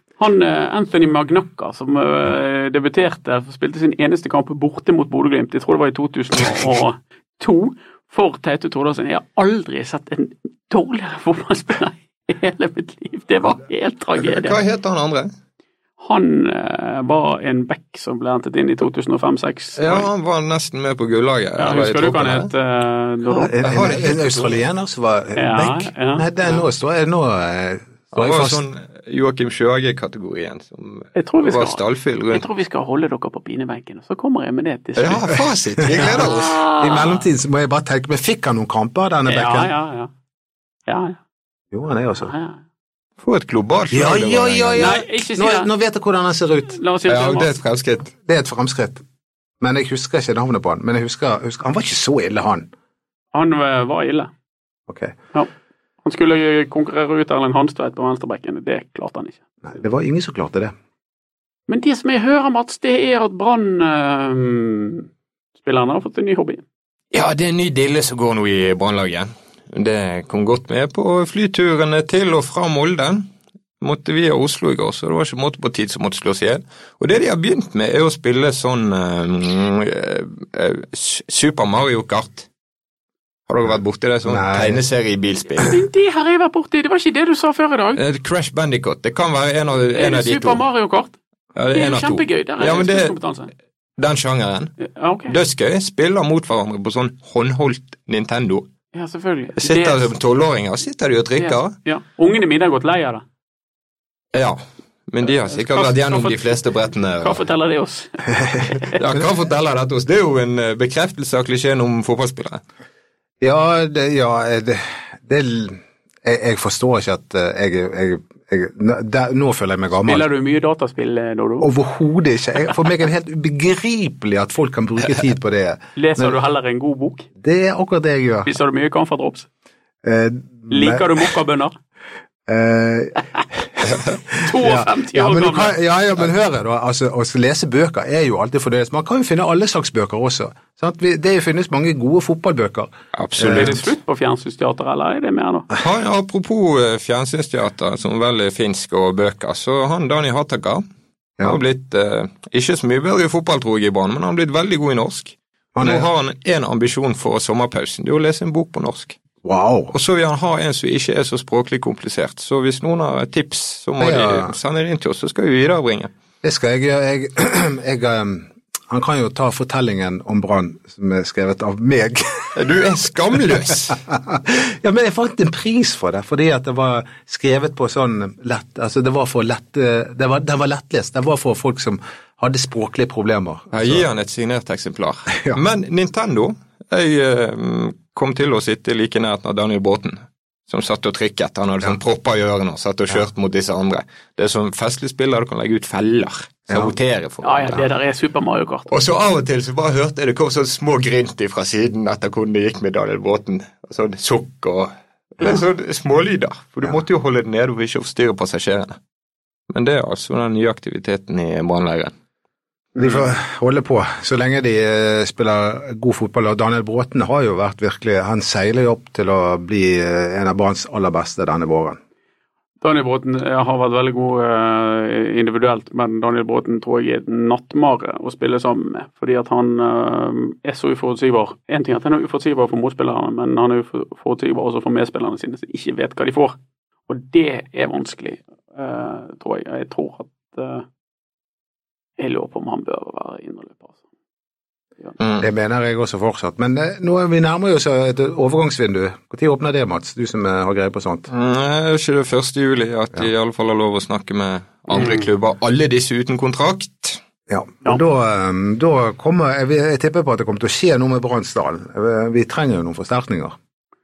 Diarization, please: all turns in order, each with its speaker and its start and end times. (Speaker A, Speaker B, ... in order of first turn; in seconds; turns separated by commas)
Speaker A: 0.2-14.6, Speaker B: 14.2-15.3, Speaker A: 16.0-20.1, Speaker B: 19.8-22.5, Speaker A: 21.6-23.6, Speaker C: 23.5-28.6, Speaker B: 23.5-24.6, Speaker A: 25.3-26.3, Speaker B: 28.1-32.5, Speaker A: 31.1-35.3, Speaker B: 35.0-36.6, Speaker C: 35.8-39.7, Speaker A: 35.9-37.2, Speaker A: 39.3-40.1, Speaker A: 40.9-41.2, Speaker C: 41.7-42.3, Speaker A: 42.2-42.6, Speaker B: 43.2-45.0, Speaker C: 43.9-46.8, Speaker A: 44.8-45.7, Speaker A: 46.7-47.5, Speaker B: 47.1-48.1, Speaker C: 48.2-49.0, Speaker C: 49.6-52.7, Speaker A: 53.3-54.3, Speaker C: 54.9-55.1, Speaker A: 56.0-59.4, Speaker C: 59.6-60.7, Speaker A: 61.7-65.1, Speaker A: 65.6-66.6, Speaker B: 67.1-73.3, Speaker B: 73.8-82.5, Speaker B: 83.5-85.8, Speaker C: 84.2-84.8, Speaker A: 85.6-88.0, Speaker B: 88.0-90.6, Speaker A: 89.9-91.1, Speaker B: 91.5-93.1, Speaker A: 91.7-93.5, Speaker B: 94.0-94.7, Speaker A: 94.8-95.4, Speaker B: 95.3-98.7, Speaker A: 98.9-100.1, Speaker B: 99.6-101.7, Speaker A: 101.4-103.2, Speaker B: 104.3-107.4, Speaker A: 105.2-106.6, Speaker A: 107.2-109.0, Speaker B: 108.9-112.6, Speaker C: 113.4-120.2, Speaker A: 120.0-121.7, Speaker C: 121.6-126.4, Speaker A: 126.0-127.3, Speaker C: 127.4-128.5, Speaker A: 128.4-129.5, Speaker C: 130.0-131.1, Speaker A: 130.7-131.7, Speaker C: 132.5-143.8, Speaker A: 134.4-135.7, Speaker B: 143.1-143.9, Speaker A: 143.4-145.7, Speaker B: 145.8-150.8, Speaker B: 151.4-159.2, Speaker C: 155.7-156.1, Speaker C: 159.4-159.9, Speaker B: 159.9-166.1, Speaker C: 164.0-164.5, Speaker C: 166.4-172.6, Speaker B: 172.5-174.0, Speaker C: 173.9-184.0, Speaker B: 183.7-197.8, Speaker A: 197.4-198.9, Speaker B: 198.9-209.0, Speaker B: 209.7-212.1, Speaker C: 212.9-222.0, Speaker A: 222.8-236.6, Speaker A: 237.1-240.8, Speaker A: 242.2-244.0, Speaker B: 245.2-245.4, Speaker C: 245.4-251.3, Speaker B: 251.3-257.2, Speaker A: 254.9-255.3, Speaker C: 257.5-263.6